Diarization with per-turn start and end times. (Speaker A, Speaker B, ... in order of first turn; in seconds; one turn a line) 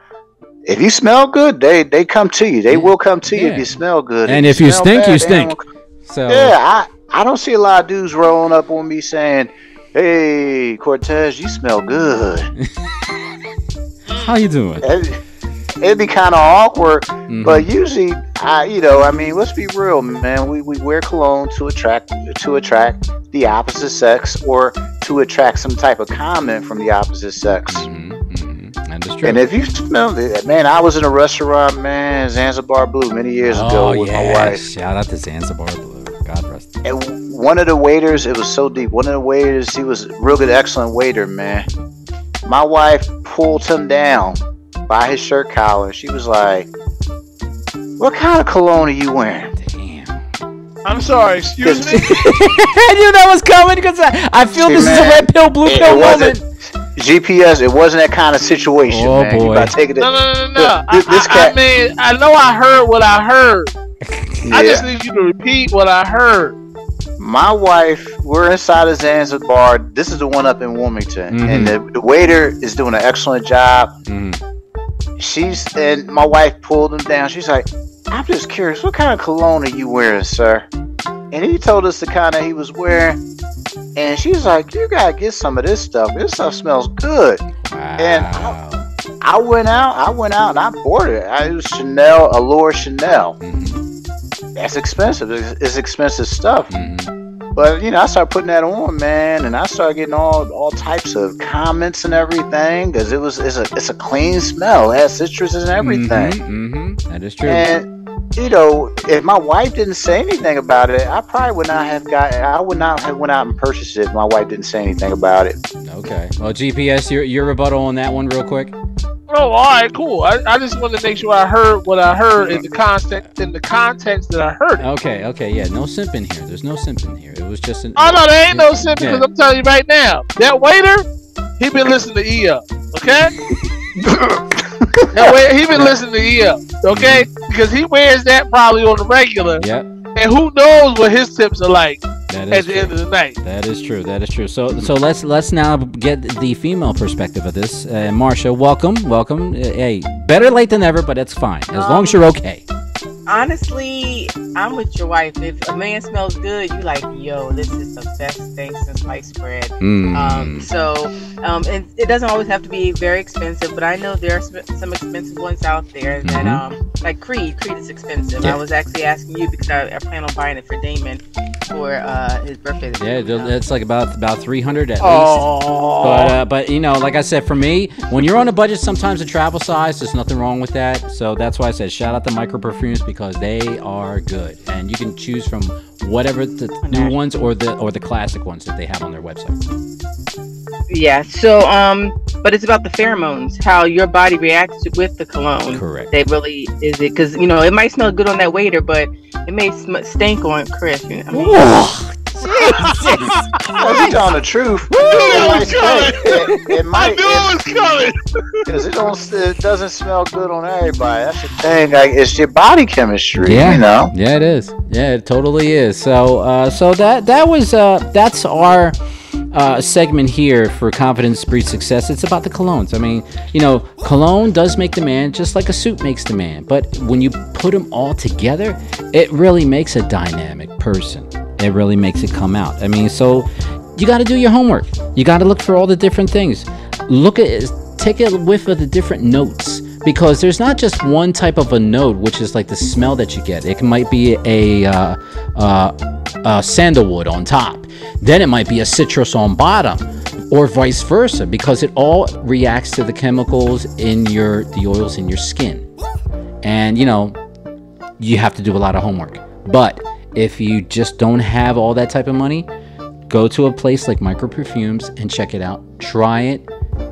Speaker A: 0.7-5.7
Speaker B: 2.7-6.5
Speaker A: 6.3-12.5
Speaker B: 14.1-14.9
Speaker A: 14.8-15.2
Speaker A: 15.8-27.9
Speaker B: 17.3-17.7
Speaker B: 27.7-29.4
Speaker A: 29.2-34.6
Speaker B: 33.4-36.7
Speaker A: 36.8-41.7
Speaker A: 42.5-46.7
Speaker A: 48.0-49.5
Speaker B: 49.6-50.2
Speaker C: 50.8-52.0
Speaker A: 51.6-52.2
Speaker B: 52.0-56.5
Speaker A: 54.5-56.4
Speaker A: 56.9-61.6
Speaker B: 58.9-59.8
Speaker C: 60.0-63.7
Speaker B: 64.0-64.5
Speaker C: 64.5-66.6
Speaker A: 64.5-64.9
Speaker A: 67.2-73.9
Speaker B: 71.3-71.8
Speaker B: 74.1-74.4
Speaker A: 75.2-80.7
Speaker A: 81.3-83.2
Speaker A: 84.0-87.4
Speaker B: 87.6-88.9
Speaker A: 88.0-88.6
Speaker A: 89.2-93.4
Speaker B: 93.4-93.8
Speaker A: 94.6-96.7
Speaker B: 96.7-97.1
Speaker A: 97.5-106.3
Speaker B: 105.8-107.7
Speaker A: 107.5-115.6
Speaker B: 115.8-118.8
Speaker C: 119.3-124.9
Speaker B: 124.8-129.3
Speaker C: 128.0-131.1
Speaker C: 131.6-133.3
Speaker A: 134.0-135.9
Speaker C: 135.1-139.6
Speaker B: 136.9-137.3
Speaker B: 139.6-139.9
Speaker C: 140.2-143.4
Speaker B: 142.3-152.7
Speaker D: 151.7-152.3
Speaker D: 153.3-173.5
Speaker B: 159.8-160.7
Speaker B: 166.2-166.6
Speaker B: 173.0-189.6
Speaker C: 175.0-176.4
Speaker D: 186.8-187.2
Speaker D: 190.9-201.8
Speaker B: 195.7-196.1
Speaker B: 201.3-203.4
Speaker A: 203.8-207.6
Speaker B: 204.0-204.2
Speaker B: 205.0-205.7
Speaker C: 205.1-208.7
Speaker A: 208.7-214.1
Speaker B: 213.4-219.0
Speaker B: 219.5-255.9
Speaker B: 256.6-257.4
Speaker B: 258.2-262.7
Speaker B: 263.3-266.7